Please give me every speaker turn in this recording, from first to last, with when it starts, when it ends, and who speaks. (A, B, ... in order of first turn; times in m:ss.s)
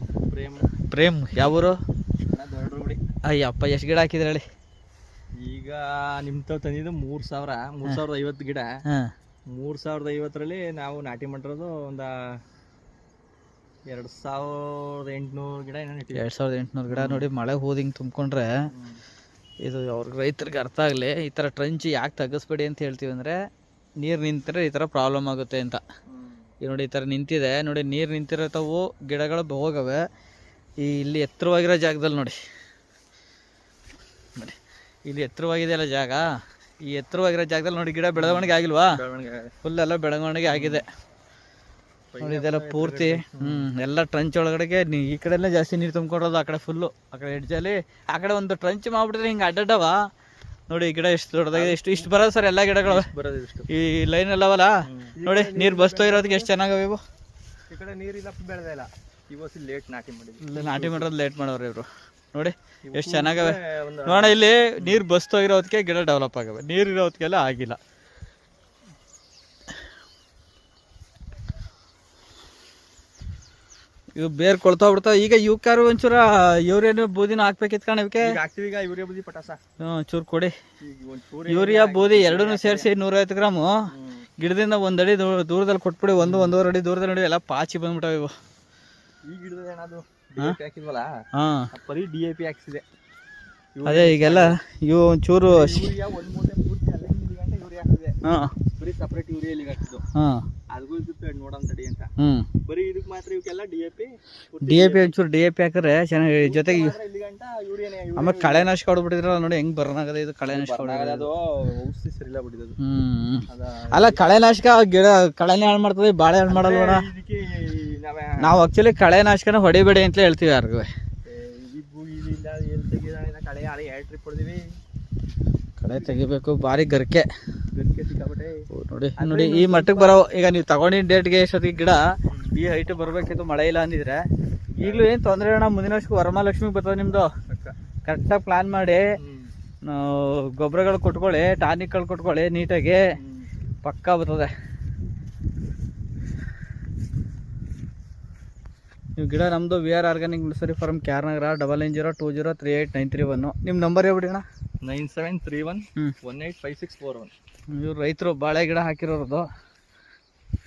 0:00.3-0:00.7 A
0:00.9-0:01.7 B
0:02.3-0:03.0 A
0:03.3-0:04.4 B
0:05.4-0:08.7 A
0:08.8-0:09.1 B
0:09.5-0:12.1 A
0:13.9-0:16.2 A
0:16.1-0:18.5 B
0:16.9-0:17.3 A
0:18.7-0:19.0 A
0:19.6-0:23.3 B
0:24.0-0:25.8 B
0:26.1-0:26.4 A
0:26.6-0:30.0 B
0:30.8-0:32.4 B
0:34.4-0:36.2 B
0:36.8-0:39.0 B
0:38.2-0:39.5 A
0:39.6-0:40.8 B
0:40.5-0:40.8 A
0:42.1-0:43.7 A
0:42.2-0:50.0 B
0:50.7-0:53.0 B
0:51.5-0:52.1 A
0:52.8-0:53.7 A
0:53.7-0:57.0 B
0:54.8-0:56.5 A
0:57.7-1:01.1 A
1:00.4-1:07.8 B
1:02.9-1:05.0 A
1:14.2-1:18.4 B
1:18.2-1:19.6 A
1:19.8-1:20.5 B
1:20.8-1:22.9 A
1:21.5-1:23.8 B
1:23.9-1:24.2 A
1:24.4-1:28.3 B
1:26.2-1:26.6 A
1:29.2-1:31.1 A
1:31.3-1:31.7 B
1:31.7-1:32.8 A
1:33.8-1:34.6 A
1:33.8-1:35.9 B
1:35.4-1:38.2 A
1:38.2-1:38.5 B
1:38.7-1:40.0 A
1:40.1-1:40.4 B
1:40.7-1:42.1 A
1:42.2-1:42.5 B
1:42.6-1:45.1 A
1:44.6-1:46.9 B
1:46.2-1:48.7 A
1:48.2-1:51.3 B
1:50.5-1:52.8 A
1:52.8-1:57.0 B
1:53.5-1:54.2 A
1:56.5-1:58.3 A
1:58.4-2:00.9 B
2:01.3-2:04.7 A
2:05.8-2:07.3 B
2:07.7-2:08.5 A
2:08.7-2:14.2 B
2:09.2-2:10.2 A
2:14.8-2:15.1 A
2:14.8-2:17.3 B
2:17.5-2:17.7 A
2:18.0-2:19.0 B
2:19.2-2:19.5 A
2:19.8-2:23.0 B
2:23.2-2:23.5 A
2:23.8-2:24.5 B
2:29.2-2:34.4 B
2:34.8-2:37.3 A
2:37.8-2:39.4 B